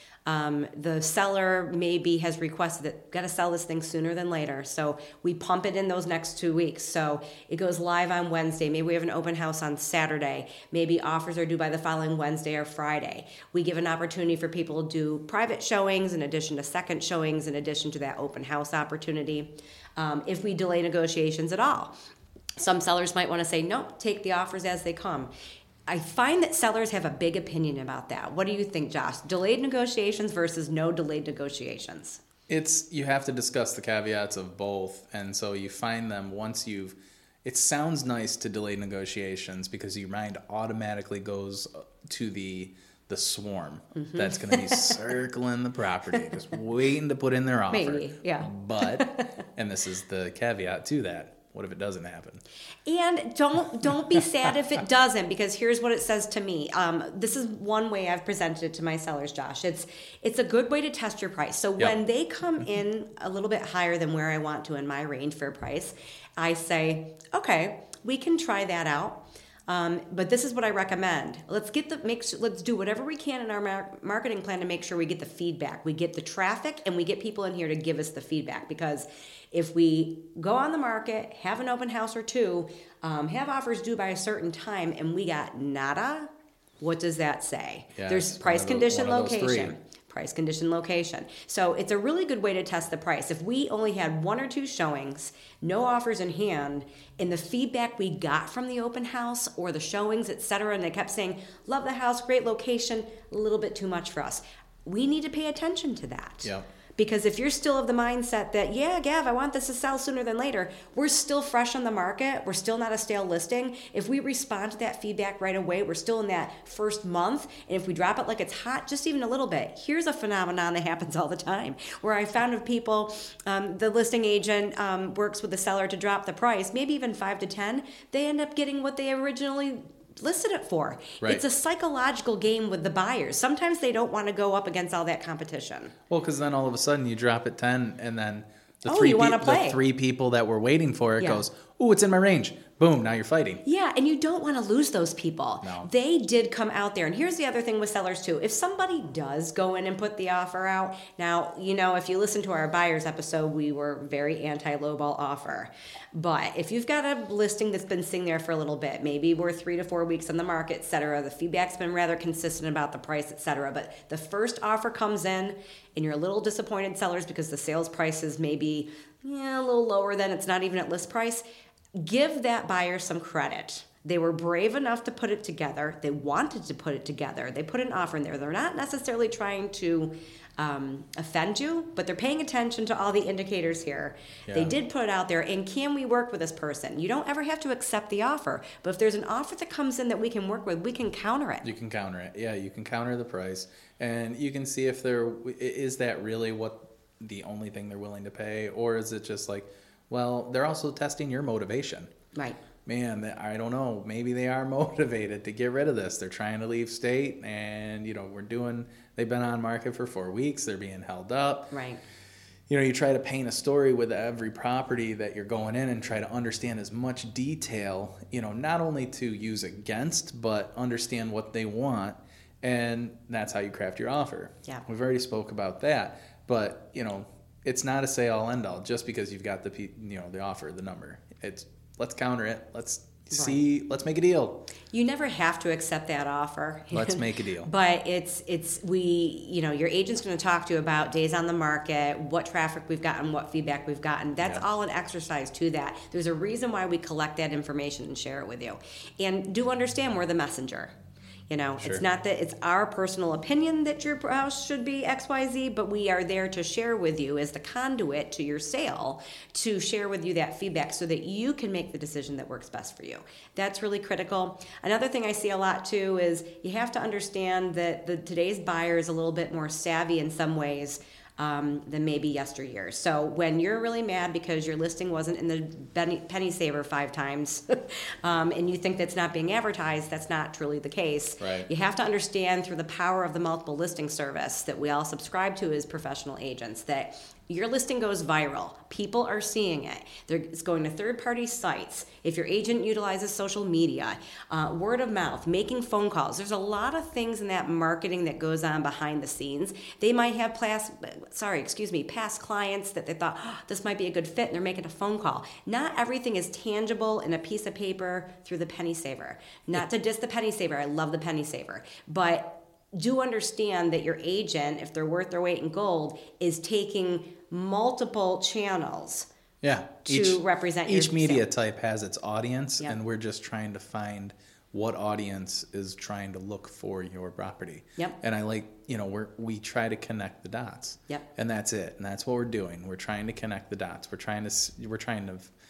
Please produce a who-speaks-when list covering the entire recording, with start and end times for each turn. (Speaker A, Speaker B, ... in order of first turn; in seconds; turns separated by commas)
Speaker A: 0.3-21.9, Speaker A: 22.6-25.3, Speaker A: 25.9-32.2, Speaker B: 32.5-52.4, Speaker A: 44.0-45.1, Speaker A: 47.7-49.3, Speaker A: 52.9-135.9, Speaker B: 88.0-89.7, Speaker B: 136.1-143.6, Speaker A: 138.9-139.8, Speaker A: 143.7-171.4, Speaker B: 145.6-145.9, Speaker A: 172.0-191.7, Speaker B: 184.5-184.8, Speaker B: 191.6-202.1, Speaker A: 202.3-202.6, Speaker B: 202.8-211.8, Speaker A: 211.7-212.0, Speaker B: 212.7-234.7, Speaker A: 233.3-233.6, Speaker A: 234.9-250.9, Speaker B: 236.9-237.7, Speaker A: 251.5-319.3, Speaker B: 251.8-252.0, Speaker B: 281.4-281.7, Speaker B: 319.6-335.5, Speaker A: 320.1-321.5